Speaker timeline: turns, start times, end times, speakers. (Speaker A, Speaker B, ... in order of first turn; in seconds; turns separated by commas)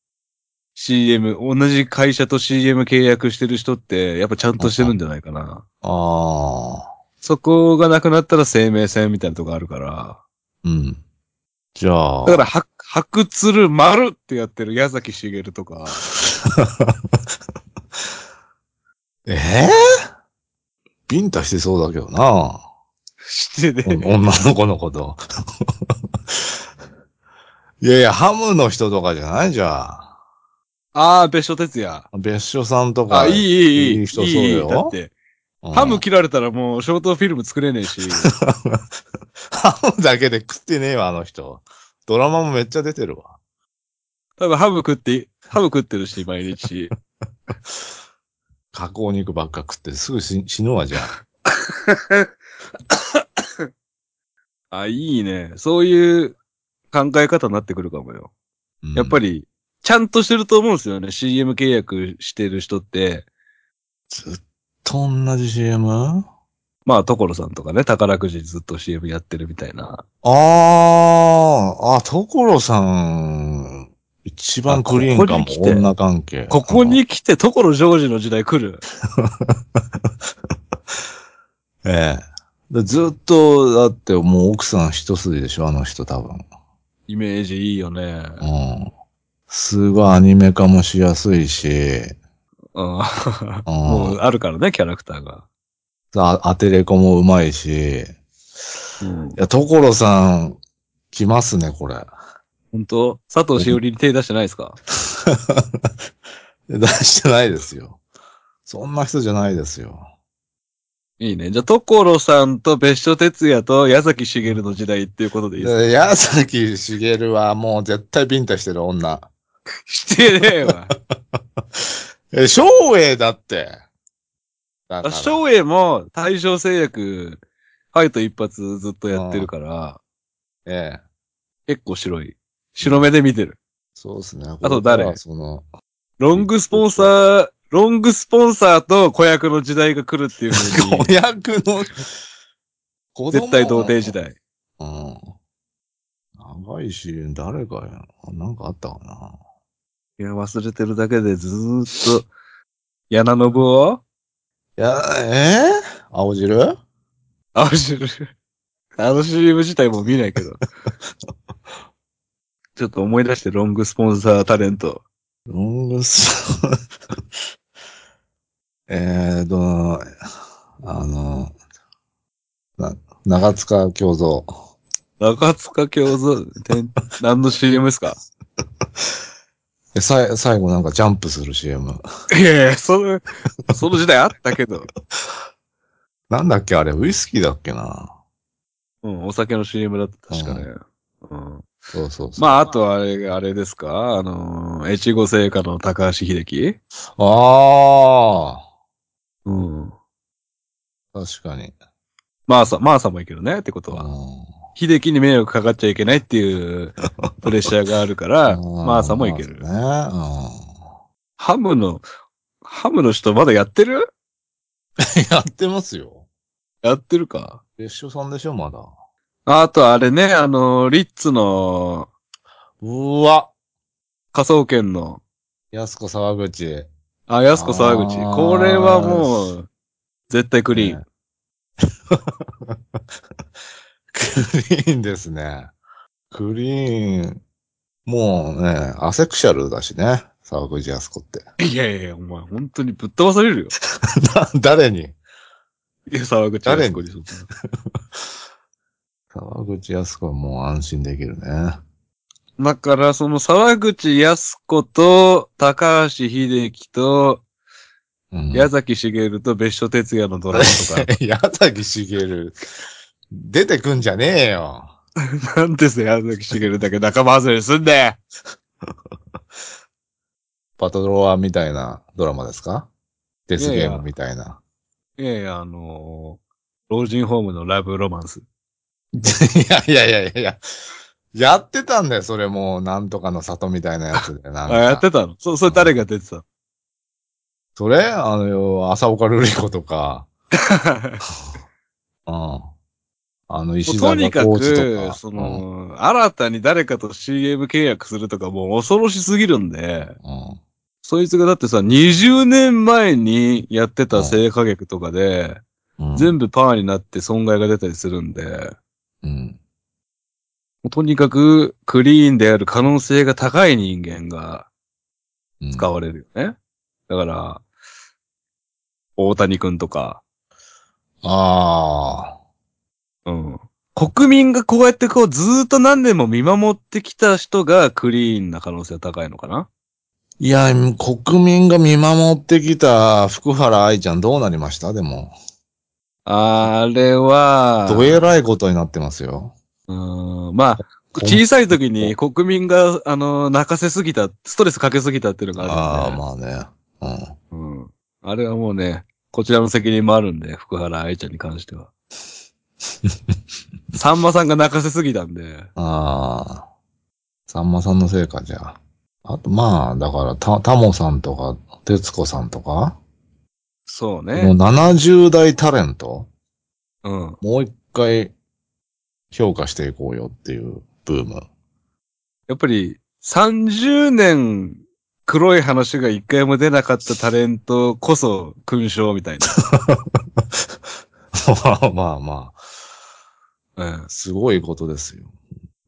Speaker A: 0.8-5.6, Speaker B: 4.6-4.9, Speaker B: 5.8-6.9, Speaker A: 7.2-10.2, Speaker B: 10.6-11.0, Speaker B: 11.8-12.4, Speaker A: 12.3-16.0, Speaker B: 16.1-17.2, Speaker B: 19.3-19.7, Speaker B: 21.1-22.6, Speaker A: 23.2-24.2, Speaker B: 23.9-26.6, Speaker B: 27.8-30.1, Speaker A: 30.9-32.1, Speaker B: 32.1-35.0, Speaker A: 33.1-35.1, Speaker B: 35.6-36.0, Speaker A: 35.7-38.3, Speaker B: 38.2-38.8, Speaker B: 39.5-43.4, Speaker A: 44.4-46.9, Speaker B: 48.7-51.1, Speaker A: 51.1-52.3, Speaker A: 52.9-53.7, Speaker A: 54.7-56.4, Speaker A: 56.9-58.3, Speaker B: 58.8-59.2, Speaker A: 59.0-63.2, Speaker B: 64.1-66.3, Speaker A: 66.9-70.0, Speaker B: 70.2-77.0, Speaker A: 74.7-75.9, Speaker A: 76.5-78.8, Speaker B: 79.2-79.8, Speaker B: 81.8-86.4, Speaker A: 87.1-88.4, Speaker B: 88.4-88.9, Speaker B: 89.5-92.2, Speaker A: 92.8-95.4, Speaker B: 93.7-94.2, Speaker B: 96.1-98.2, Speaker A: 99.0-99.4, Speaker B: 99.4-100.6, Speaker B: 101.1-102.1, Speaker A: 102.7-104.8, Speaker B: 105.0-105.9, Speaker B: 106.7-108.0, Speaker B: 108.7-110.1, Speaker A: 111.2-115.9, Speaker B: 115.6-119.3, Speaker A: 119.9-120.9, Speaker B: 121.8-123.8, Speaker B: 124.9-125.4, Speaker A: 125.0-127.4, Speaker A: 127.9-130.0, Speaker B: 129.1-129.5, Speaker B: 130.7-131.0, Speaker A: 131.7-133.6, Speaker B: 132.8-133.1, Speaker B: 134.0-135.7, Speaker A: 134.6-135.2, Speaker A: 136.2-141.1, Speaker B: 136.3-137.2, Speaker B: 140.6-142.0, Speaker B: 143.2-144.1, Speaker A: 143.3-144.4, Speaker B: 144.8-145.3, Speaker B: 146.4-149.4, Speaker A: 150.2-152.3, Speaker A: 153.1-154.0, Speaker B: 154.8-156.8, Speaker A: 157.6-158.3, Speaker A: 159.0-160.6, Speaker A: 162.8-165.0, Speaker B: 165.5-166.8, Speaker B: 168.9-170.1, Speaker B: 170.8-171.5, Speaker B: 172.8-174.6, Speaker A: 175.2-178.2, Speaker B: 179.9-182.0, Speaker A: 182.3-184.9, Speaker B: 186.3-188.2, Speaker A: 189.0-191.7, Speaker B: 190.3-190.7, Speaker B: 191.9-192.5, Speaker A: 192.4-196.8, Speaker B: 197.2-198.6, Speaker A: 199.4-199.9, Speaker B: 201.1-201.8, Speaker A: 202.5-204.1, Speaker B: 203.9-204.6, Speaker A: 204.8-209.7, Speaker B: 208.5-210.9, Speaker A: 211.4-212.1, Speaker A: 212.6-214.1, Speaker B: 215.0-216.2, Speaker A: 216.8-217.6, Speaker B: 217.8-218.9, Speaker A: 219.5-222.1, Speaker B: 222.8-223.5, Speaker A: 224.3-225.2, Speaker B: 225.7-226.9, Speaker A: 227.3-229.7, Speaker B: 227.5-229.6, Speaker A: 230.3-231.0, Speaker B: 230.7-231.0, Speaker B: 232.1-232.8, Speaker B: 234.1-235.7, Speaker B: 236.3-237.4, Speaker B: 238.1-241.4, Speaker A: 241.6-243.7, Speaker B: 244.0-245.1, Speaker A: 246.1-247.5, Speaker B: 246.7-247.1, Speaker B: 249.3-251.8, Speaker A: 252.6-257.4, Speaker B: 258.3-258.7, Speaker A: 258.5-261.1, Speaker B: 260.5-262.6, Speaker B: 263.3-264.9, Speaker A: 265.4-268.2, Speaker B: 270.8-272.9, Speaker B: 273.5-274.6, Speaker A: 273.6-274.1, Speaker A: 275.2-278.4, Speaker B: 279.1-280.6, Speaker B: 281.3-285.1, Speaker A: 284.2-286.4, Speaker B: 285.7-285.9, Speaker B: 287.8-290.3, Speaker A: 290.6-291.2, Speaker B: 292.3-292.7, Speaker B: 293.5-295.6, Speaker A: 293.9-300.1, Speaker B: 300.2-300.6, Speaker A: 301.0-305.6, Speaker B: 304.1-304.4, Speaker B: 306.0-306.4, Speaker A: 306.1-308.8, Speaker B: 309.2-309.6, Speaker A: 310.8-314.7, Speaker B: 315.6-315.9, Speaker A: 315.8-316.6, Speaker A: 317.1-317.6, Speaker A: 319.2-320.2, Speaker B: 321.2-322.4, Speaker A: 323.3-329.7, Speaker B: 330.4-335.3, Speaker A: 336.3-338.3, Speaker B: 337.9-339.5, Speaker A: 339.9-346.2, Speaker B: 341.2-342.1, Speaker B: 345.6-347.3, Speaker A: 347.5-351.9, Speaker A: 353.9-355.7, Speaker B: 355.8-356.7, Speaker B: 357.5-363.0, Speaker A: 363.9-364.6, Speaker B: 364.4-366.3, Speaker A: 367.0-367.4, Speaker B: 367.4-368.3, Speaker B: 369.3-371.5, Speaker A: 372.5-379.6, Speaker B: 379.7-380.4, Speaker B: 381.4-382.6, Speaker A: 383.8-384.1, Speaker B: 384.1-385.3